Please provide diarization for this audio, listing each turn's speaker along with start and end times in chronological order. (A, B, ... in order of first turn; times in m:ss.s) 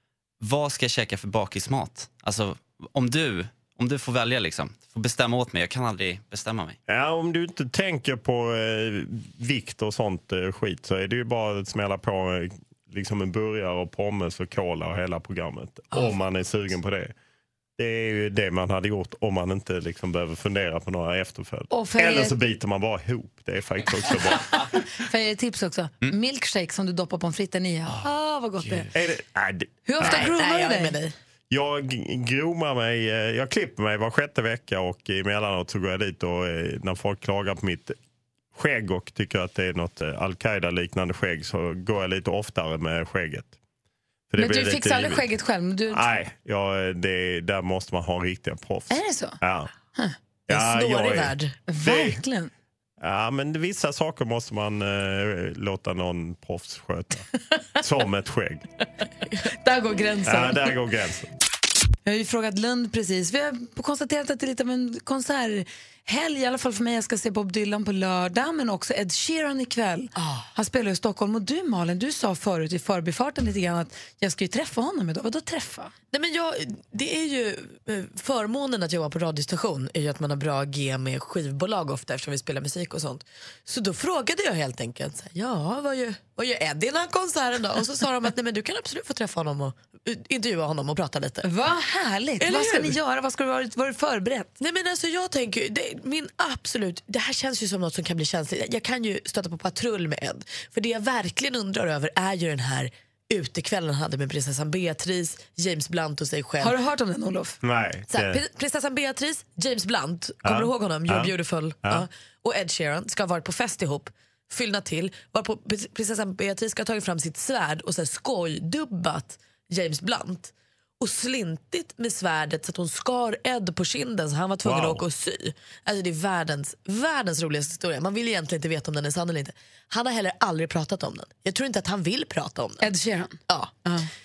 0:00.4-0:06.8 A
0:06.9-0:17.1 B
0:17.8-0:24.6 B
0:21.7-0:22.4 C
0:25.0-0:28.9 C
0:28.9-0:30.2 B
0:29.9-0:31.0 C
0:30.0-0:31.2 D
0:31.5-0:38.0 B
0:38.5-0:43.6 B
0:44.3-0:45.3 B
0:44.4-0:46.0 C
0:45.9-0:49.7 B
0:48.9-0:49.4 C
0:50.5-0:51.6 D
0:50.5-0:52.2 B
0:51.7-0:52.5 C
0:53.0-0:57.3 B
0:57.8-0:58.6 B
0:59.6-1:00.7 C
1:00.3-1:01.3 B
1:02.1-1:15.9 C
1:10.2-1:10.5 D
1:16.1-1:31.5 D
1:31.4-1:34.6 C
1:32.4-1:33.0 D
1:34.6-1:46.8 D
1:46.6-1:47.6 C
1:47.6-1:48.4 B
1:48.1-2:12.9 D
1:50.4-1:51.3 B
2:04.6-2:05.0 B
2:12.8-2:14.1 C
2:13.5-2:13.7 D